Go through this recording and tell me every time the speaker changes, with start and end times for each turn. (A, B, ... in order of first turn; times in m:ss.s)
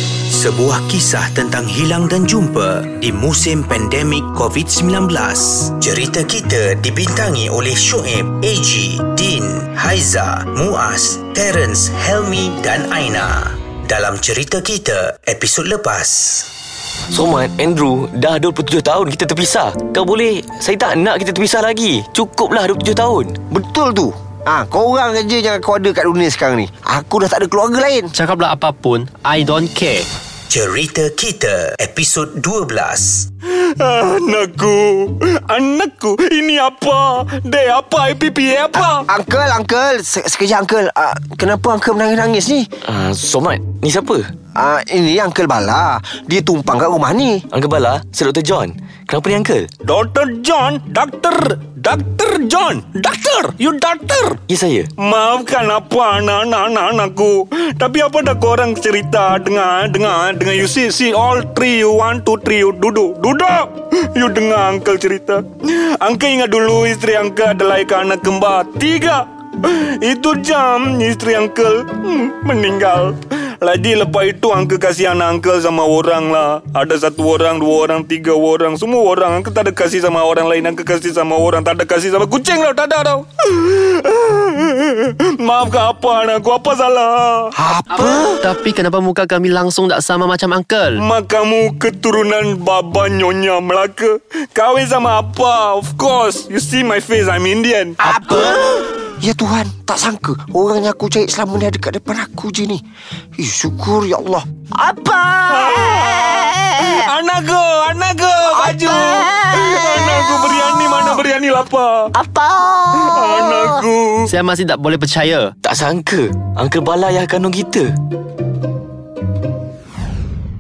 0:00.3-0:16.5 A
0:17.1-0:23.4 B
0:23.5-0:28.1 C
0:28.1-0:30.1 D
0:30.5-0:33.3 A
0:33.8-0:39.0 E
0:38.8-0:42.7 C
0:42.8-0:44.3 B
0:44.6-0:47.4 C
0:47.5-0:49.7 B
0:49.8-0:54.4 E
0:54.5-0:54.9 B
0:55.0-1:27.5 E
1:27.6-1:28.4 C
1:28.0-1:31.0 D
1:31.0-1:38.0 E
1:38.0-1:42.8 C
1:43.4-1:45.5 C
1:45.5-1:52.1 E
1:48.6-1:49.4 C
1:52.4-1:53.3 C
1:52.9-1:54.3 E
1:54.3-1:55.5 D
1:55.6-1:57.9 B